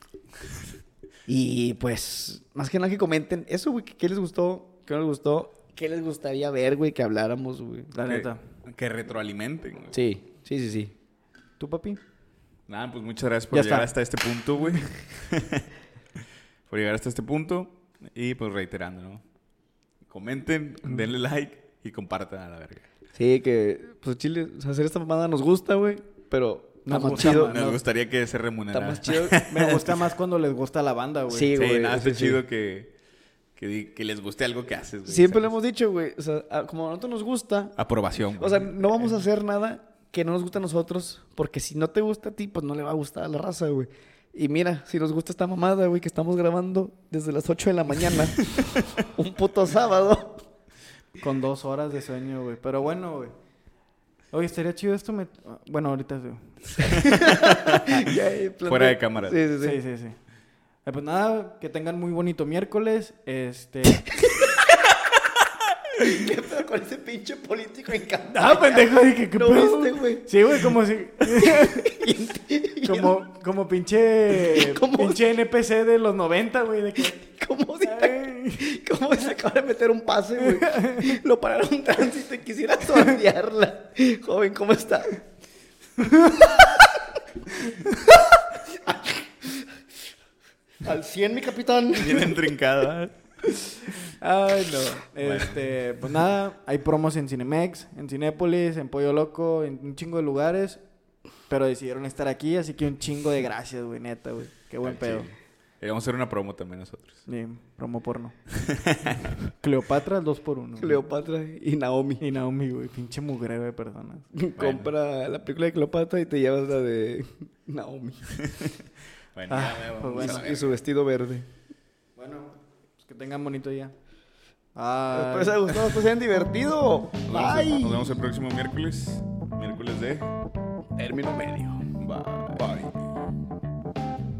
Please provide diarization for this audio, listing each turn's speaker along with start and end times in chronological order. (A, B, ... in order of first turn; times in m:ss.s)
0:01.3-0:07.9 A
0:07.9-0:08.4 B
0:08.0-0:10.0 C
0:09.9-0:10.9 A
0:11.6-0:12.0 B
0:12.7-0:15.7 C
0:13.5-0:13.9 B
0:16.7-0:19.2 C
0:20.1-0:22.8 C
0:23.1-0:27.8 A
0:26.8-0:27.8 B
0:27.0-0:29.9 C
0:28.7-0:29.7 A
0:29.5-0:31.5 B
0:31.3-0:32.4 A
0:31.5-0:32.9 C
0:33.6-0:35.5 C
0:35.0-0:37.8 A
0:37.8-0:38.7 C
0:38.4-0:50.4 A
0:48.5-0:49.0 C
0:51.2-0:53.3 B
0:54.3-0:57.2 B
0:56.8-0:59.8 A
0:57.0-0:59.4 C
0:59.6-1:00.2 B
1:00.8-1:04.1 B
1:06.0-1:13.3 A
1:08.3-1:12.0 B
1:12.8-1:17.2 B
1:14.3-1:15.2 A
1:17.2-1:25.2 A
1:17.8-1:18.8 B
1:20.4-1:21.2 B
1:26.0-1:27.0 A
1:27.9-1:29.6 A
1:30.8-1:32.5 A
1:31.9-1:33.2 C
1:34.2-1:35.0 A
1:34.4-1:40.8 B
1:35.2-1:35.6 C
1:41.5-1:45.3 B
1:44.8-1:47.2 C
1:47.3-1:48.3 B
1:48.5-1:49.3 C
1:49.5-1:51.0 B
1:50.8-1:52.2 A
1:52.2-1:54.2 B
1:54.3-1:58.5 A
1:54.6-1:54.9 C
1:58.4-1:58.8 C
1:59.3-2:00.8 C
1:59.5-2:00.5 B
2:00.2-2:01.5 A
2:02.2-2:03.9 B
2:04.7-2:05.7 B
2:05.1-2:08.2 A
2:07.3-2:10.3 C
2:11.0-2:11.9 A
2:12.0-2:13.0 C